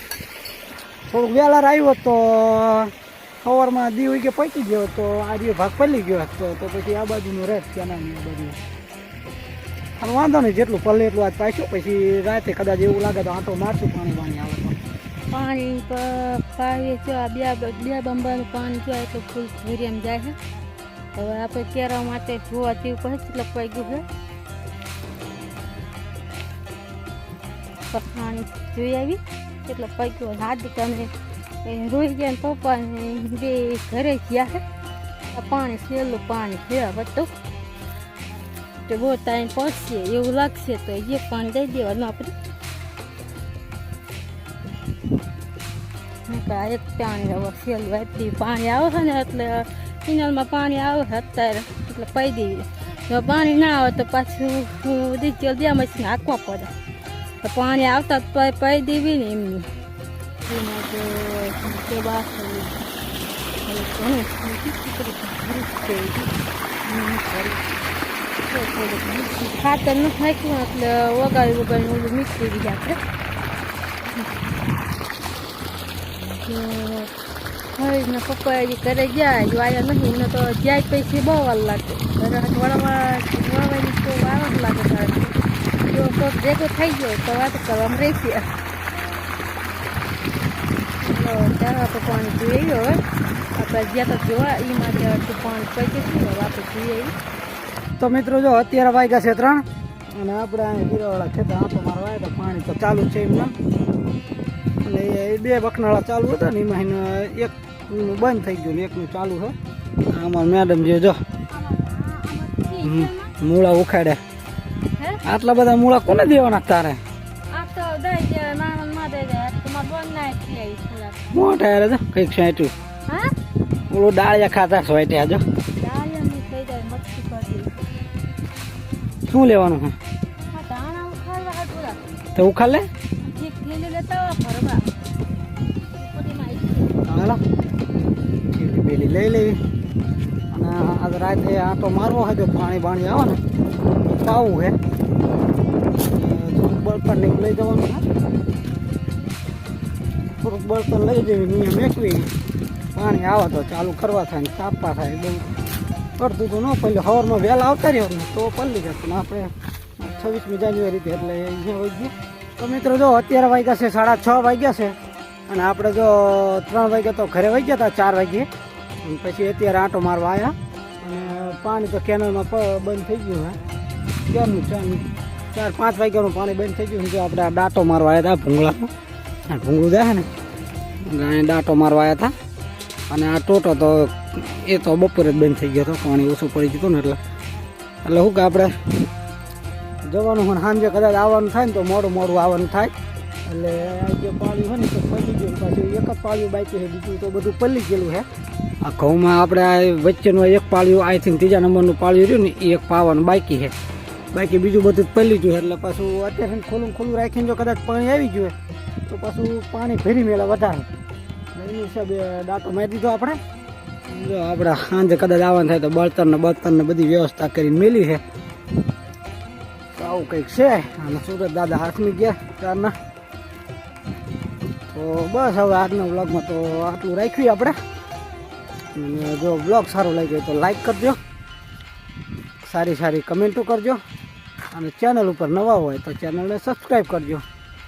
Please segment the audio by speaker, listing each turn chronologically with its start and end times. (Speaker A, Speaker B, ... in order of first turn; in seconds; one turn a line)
Speaker A: 1.1-8.6
Speaker A: 10.0-14.8
Speaker B: 15.3-20.4
Speaker B: 21.1-24.1
Speaker B: 27.9-31.1
Speaker B: 31.6-34.6
Speaker B: 35.3-37.3
Speaker B: 38.9-42.3
Speaker B: 46.3-56.7
Speaker B: 57.4-59.7
Speaker B: 60.4-62.8
Speaker B: 63.6-66.3
Speaker B: 66.8-67.6
Speaker B: 68.5-73.0
Speaker B: 76.2-77.1
Speaker B: 77.7-85.3
Speaker B: 85.8-88.5
Speaker B: 91.0-93.0
Speaker B: 93.5-97.1
Speaker A: 98.0-103.5
Speaker A: 104.8-109.5
Speaker A: 110.1-111.2
Speaker B: 111.5-113.3
Speaker A: 112.8-114.2
Speaker A: 115.2-117.0
Speaker B: 117.5-121.3
Speaker A: 121.3-122.7
Speaker A: 123.9-125.4
Speaker B: 125.8-127.7
Speaker A: 129.2-129.9
Speaker B: 130.5-132.0
Speaker A: 132.3-132.8
Speaker B: 133.2-134.9
Speaker B: 135.9-137.0
Speaker A: 137.0-137.4
Speaker A: 138.5-139.6
Speaker A: 140.5-143.4
Speaker A: 144.0-144.8
Speaker A: 146.1-148.0
Speaker A: 150.4-152.3
Speaker A: 152.9-155.5
Speaker A: 156.2-164.9
Speaker A: 165.5-168.5
Speaker A: 169.0-173.6
Speaker A: 174.3-178.9
Speaker A: 179.5-180.3
Speaker A: 181.1-182.3
Speaker A: 183.1-187.2
Speaker A: 188.0-188.7
Speaker A: 190.0-192.9
Speaker A: 193.4-198.2
Speaker A: 198.8-203.7
Speaker A: 204.3-208.5
Speaker A: 209.1-210.9
Speaker A: 211.5-213.4
Speaker A: 214.1-218.2
Speaker A: 219.9-222.9
Speaker A: 224.9-227.8
Speaker A: 228.9-231.2
Speaker A: 232.6-234.0
Speaker A: 234.7-237.4